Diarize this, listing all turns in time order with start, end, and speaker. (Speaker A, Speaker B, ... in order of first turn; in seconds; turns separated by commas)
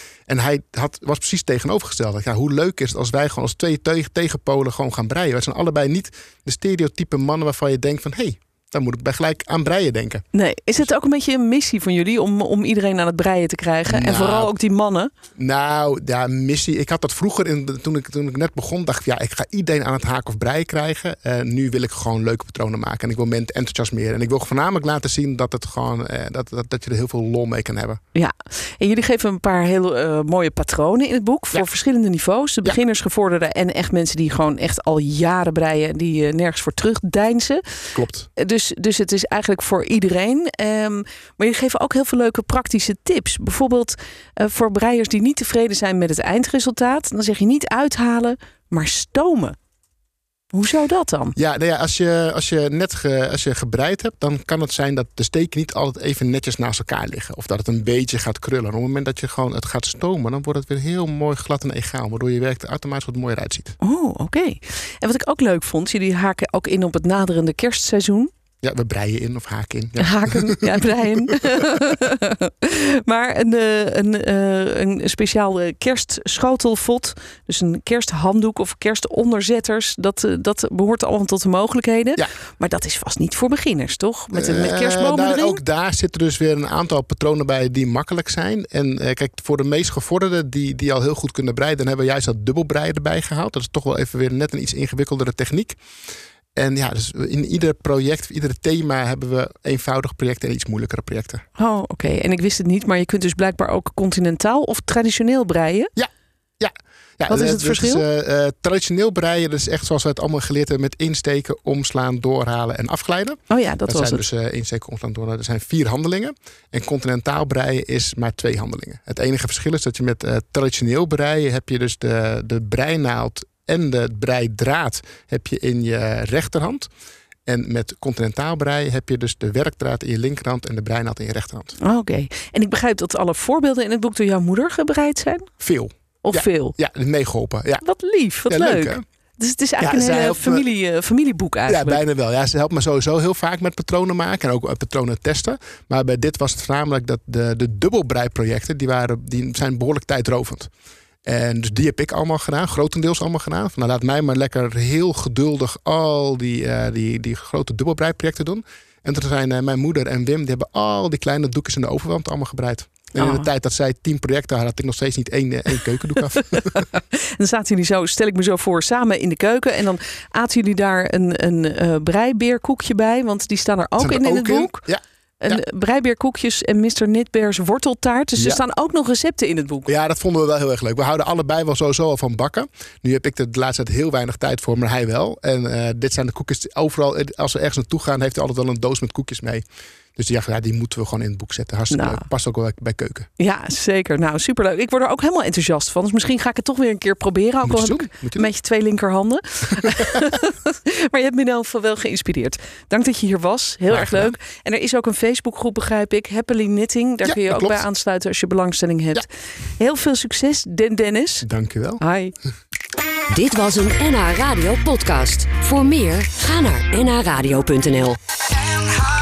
Speaker A: 0.3-10.2, Speaker B: 10.3-15.1, Speaker A: 13.8-14.5, Speaker A: 15.4-28.0, Speaker B: 28.1-37.6, Speaker A: 37.9-38.3, Speaker B: 38.4-49.5, Speaker B: 50.5-51.4, Speaker A: 51.4-63.8, Speaker B: 63.8-68.3, Speaker A: 68.6-71.3, Speaker B: 70.0-85.6, Speaker A: 84.3-95.8, Speaker A: 96.5-101.4, Speaker B: 101.6-105.9, Speaker A: 106.0-126.9, Speaker B: 107.3-108.0, Speaker B: 113.5-114.2, Speaker A: 127.5-131.8, Speaker B: 131.8-135.5, Speaker A: 135.6-137.8, Speaker B: 136.2-136.8, Speaker B: 137.8-142.0, Speaker A: 138.5-139.0, Speaker A: 139.8-140.7, Speaker A: 141.7-150.7, Speaker A: 151.2-166.8, Speaker B: 163.2-163.5, Speaker B: 166.6-174.8, Speaker A: 174.0-175.6, Speaker B: 175.4-179.9, Speaker A: 178.4-178.6, Speaker A: 179.8-189.6, Speaker A: 190.2-193.3, Speaker B: 191.9-192.2, Speaker B: 193.4-211.5, Speaker A: 197.6-198.5, Speaker A: 203.9-204.3, Speaker A: 207.2-207.8, Speaker A: 211.4-212.0, Speaker B: 212.0-212.3, Speaker C: 213.3-218.2